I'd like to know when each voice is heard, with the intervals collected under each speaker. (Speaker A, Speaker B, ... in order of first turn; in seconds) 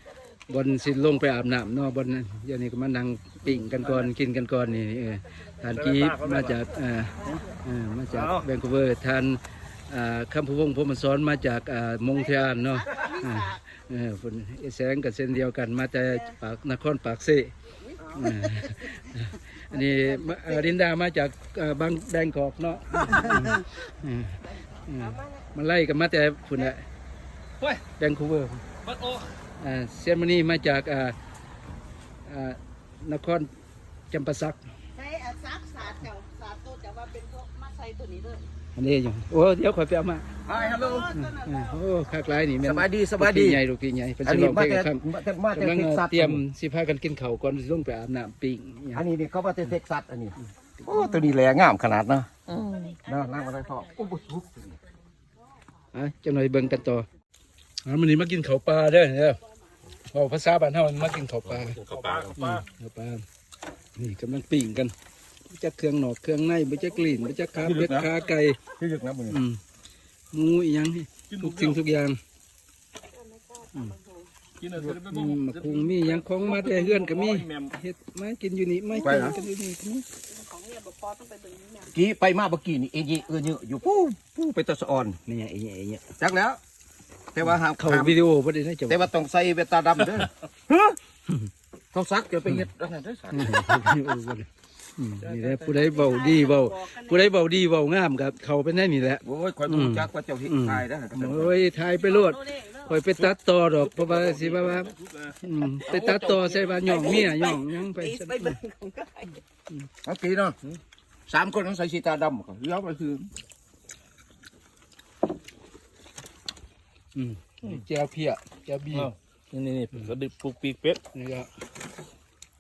Speaker A: 0.5-26.8, 27.9-28.6, 29.6-31.1, 32.2-33.5, 34.1-34.6, 38.8-40.2, 41.1-49.0, 55.9-57.0, 57.8-59.4, 60.1-61.8, 62.3-63.2, 64.0-64.9, 65.5-68.6, 69.3-69.6, 70.3-72.2, 74.7-80.0, 85.3-86.1, 87.8-89.0, 93.3-108.6, 117.1-119.1, 121.1-121.5
Speaker B: 5.7-6.6, 8.1-8.5, 61.9-62.3, 71.3-71.7, 74.8-76.2, 77.1-77.7, 104.1-105.3, 119.0-121.0
Speaker C: 12.8-13.4, 18.0-18.3, 25.1-25.4, 34.9-38.5, 40.5-41.7, 52.7-53.0, 73.1-75.2, 76.5-76.9, 80.3-81.9, 95.4-97.2, 106.2-109.4
Speaker D: 40.5-41.1, 42.6-43.6, 44.2-46.4, 48.9-54.8, 61.5-62.5, 67.6-68.1, 68.7-69.4, 79.0-79.4, 81.9-85.2, 86.2-86.6, 87.3-88.2, 88.9-91.0, 91.9-94.0, 99.2-101.6, 105.9-106.5, 110.0-110.6, 111.3-113.3